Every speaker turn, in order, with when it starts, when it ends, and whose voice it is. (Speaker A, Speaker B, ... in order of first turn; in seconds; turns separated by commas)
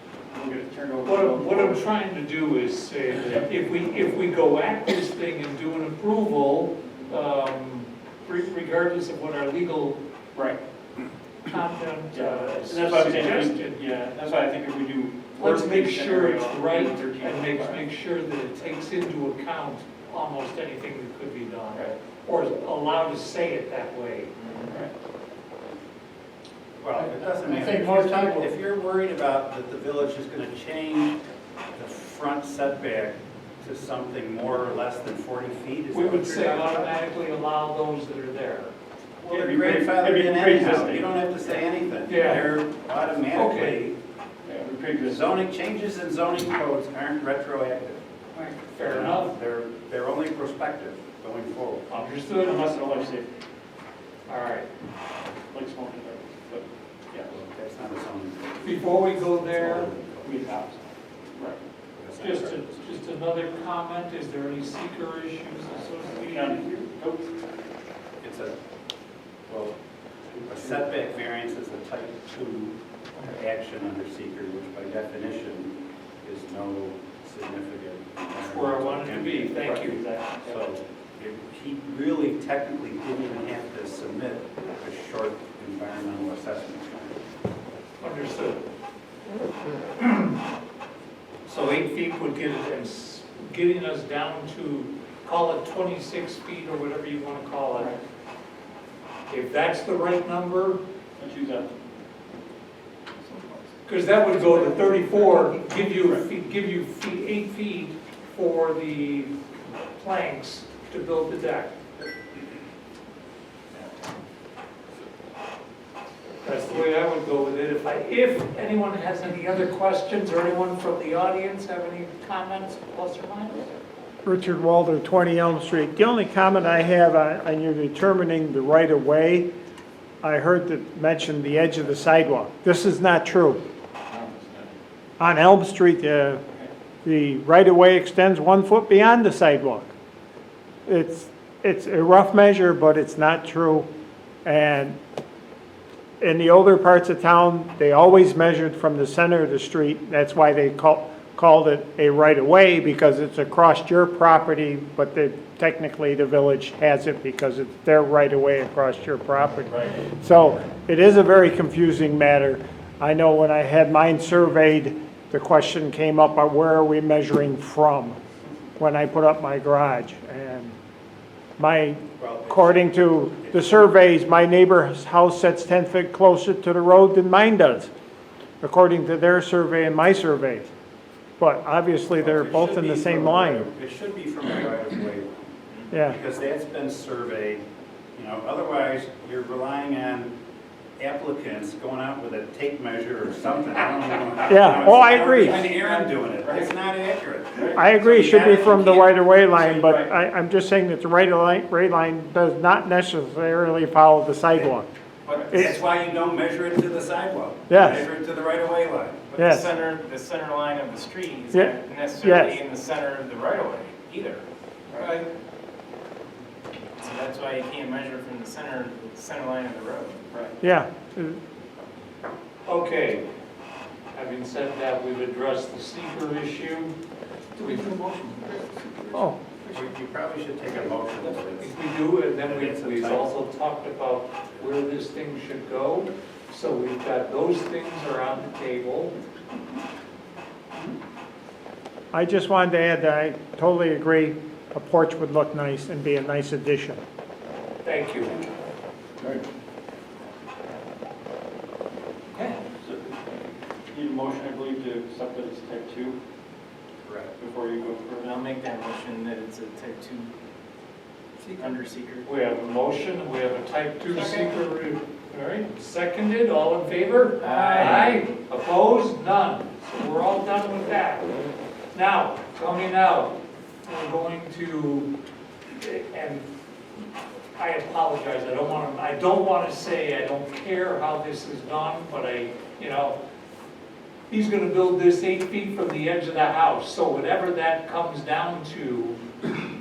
Speaker A: 0.3-1.9, Speaker B: 1.1-10.0, Speaker B: 11.4-13.8, Speaker A: 12.1-17.9, Speaker B: 15.4-24.3, Speaker C: 24.4-24.7, Speaker D: 26.8-31.2, Speaker E: 27.0-28.5, Speaker D: 31.8-36.9, Speaker B: 35.9-38.7, Speaker D: 39.2-44.0, Speaker A: 39.3-41.6, Speaker B: 42.1-42.5, Speaker B: 43.3-43.8, Speaker A: 44.5-45.3, Speaker D: 45.0-48.0, Speaker B: 48.3-49.3, Speaker D: 48.8-51.9, Speaker B: 51.9-52.7, Speaker A: 52.4-53.3, Speaker B: 54.3-54.7, Speaker A: 55.5-56.7, Speaker D: 57.1-60.4, Speaker B: 58.6-59.9, Speaker A: 60.2-61.6, Speaker D: 62.0-62.8, Speaker B: 62.2-66.7, Speaker A: 66.3-67.3, Speaker D: 68.2-68.6, Speaker D: 69.5-69.8, Speaker A: 70.3-70.8, Speaker D: 70.5-87.2, Speaker B: 78.4-80.0, Speaker A: 79.6-80.7, Speaker B: 88.0-88.7, Speaker B: 90.0-90.4, Speaker B: 91.5-98.0, Speaker B: 99.3-100.8, Speaker A: 101.2-101.8, Speaker A: 103.3-103.6, Speaker B: 103.9-111.7, Speaker B: 116.4-123.7, Speaker E: 124.2-129.5, Speaker E: 130.2-133.6, Speaker A: 134.1-134.7, Speaker E: 135.2-136.4, Speaker E: 137.0-139.9, Speaker E: 140.9-143.9, Speaker E: 144.4-145.0, Speaker E: 146.2-168.2, Speaker E: 168.8-170.8, Speaker E: 171.6-177.9, Speaker D: 172.2-173.9, Speaker E: 178.6-180.7, Speaker E: 181.4-183.7, Speaker D: 182.2-190.4, Speaker E: 185.9-186.2, Speaker D: 191.0-199.9, Speaker E: 194.5-195.9, Speaker A: 196.4-196.7, Speaker E: 197.7-204.9, Speaker C: 205.3-205.6, Speaker E: 205.5-205.8, Speaker D: 205.5-209.5, Speaker E: 207.7-208.1, Speaker E: 209.4-209.7, Speaker C: 209.4-214.5, Speaker E: 211.5-212.6, Speaker A: 214.9-215.2, Speaker C: 215.0-215.3, Speaker C: 217.0-220.3, Speaker E: 220.6-221.4, Speaker B: 222.7-223.3, Speaker B: 224.2-226.9, Speaker B: 227.6-228.0, Speaker A: 227.7-228.7, Speaker E: 229.1-229.4, Speaker D: 229.7-233.3, Speaker B: 231.6-239.1, Speaker E: 242.1-247.0, Speaker B: 247.8-248.4, Speaker B: 252.3-252.6, Speaker A: 252.7-253.2, Speaker A: 253.9-256.2, Speaker D: 257.0-257.3, Speaker A: 257.4-258.4, Speaker C: 258.3-260.3, Speaker C: 261.5-262.3, Speaker B: 262.2-271.3, Speaker C: 264.2-264.4, Speaker C: 267.4-268.3, Speaker B: 271.9-275.1, Speaker B: 275.7-276.5, Speaker B: 277.6-283.2, Speaker B: 284.3-289.2